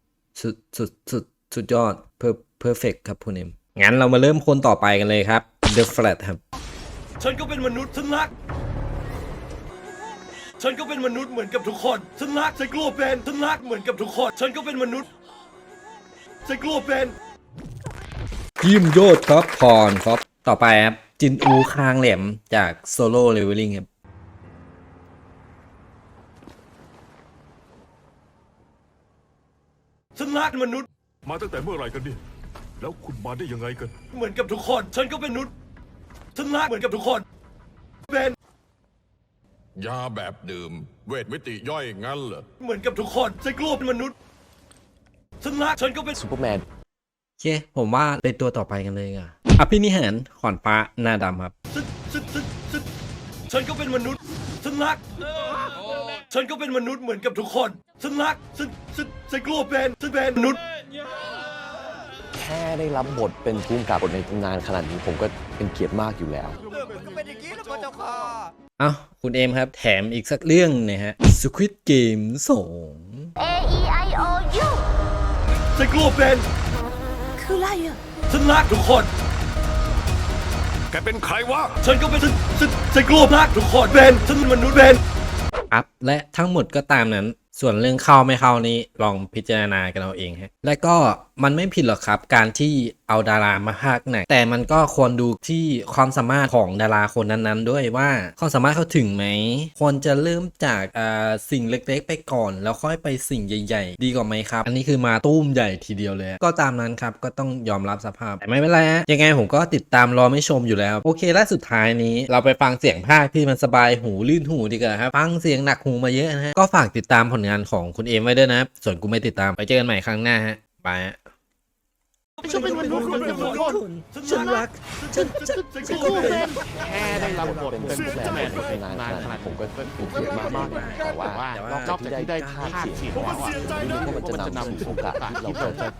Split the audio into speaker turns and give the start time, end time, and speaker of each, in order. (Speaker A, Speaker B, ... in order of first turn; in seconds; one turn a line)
Speaker A: 0.3-6.4
Speaker B: 7.2-8.3
Speaker B: 10.6-15.1
Speaker B: 16.5-17.1
Speaker A: 18.6-23.9
Speaker B: 30.2-30.9
Speaker C: 31.3-32.2
Speaker C: 32.8-34.0
Speaker B: 34.1-35.5
Speaker B: 36.4-37.2
Speaker B: 38.1-38.4
Speaker C: 39.8-42.5
Speaker B: 42.6-44.1
Speaker B: 45.4-46.1
Speaker D: 46.1-46.6
Speaker A: 47.4-51.5
Speaker B: 51.8-52.6
Speaker B: 53.5-55.1
Speaker B: 56.1-60.6
Speaker D: 62.3-66.6
Speaker A: 68.8-73.3
Speaker E: 73.4-74.8
Speaker B: 75.8-76.5
Speaker E: 77.4-78.0
Speaker B: 78.3-79.1
Speaker C: 80.9-81.8
Speaker B: 81.8-85.0
Speaker A: 85.7-121.2
Speaker A: 122.4-126.6
Speaker B: 122.5-123.6
Speaker D: 127.0-135.8
Speaker A: 130.5-132.6